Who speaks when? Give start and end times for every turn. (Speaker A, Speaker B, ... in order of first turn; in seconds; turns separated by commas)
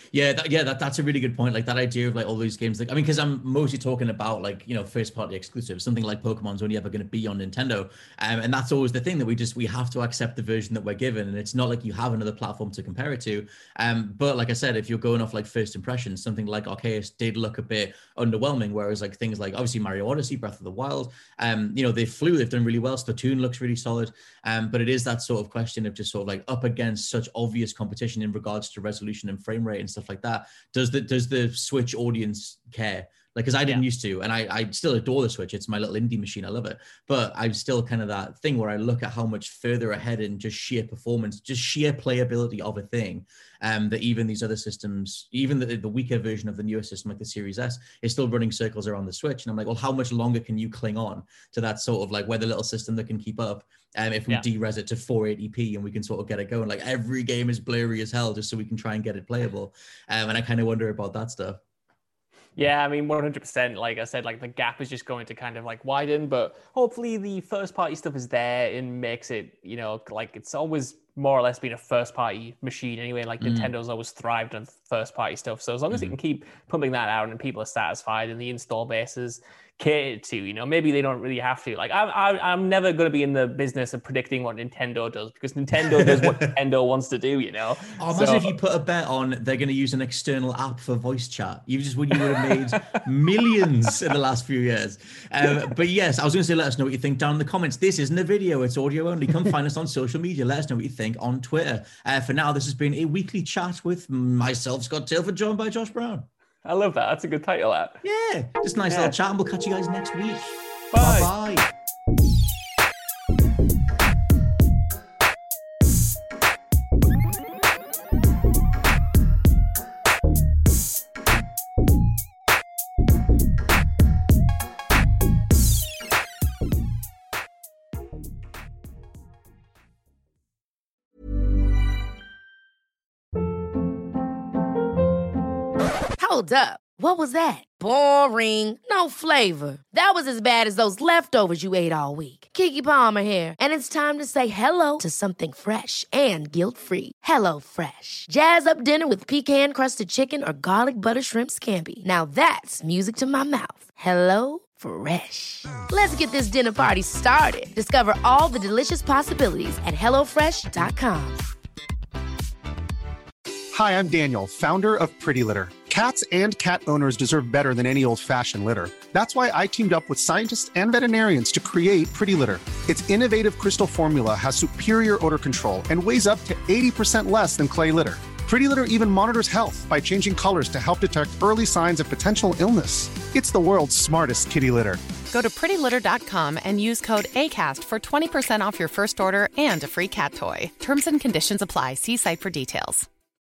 Speaker A: 0.1-61.6, Speaker B: 62.6-88.5, Speaker A: 73.4-73.7, Speaker A: 85.8-86.3, Speaker A: 88.0-106.3, Speaker B: 106.7-108.0, Speaker A: 108.0-111.7, Speaker B: 108.9-109.2, Speaker B: 110.9-111.3, Speaker C: 136.2-161.4, Speaker D: 163.7-185.0, Speaker E: 185.3-193.1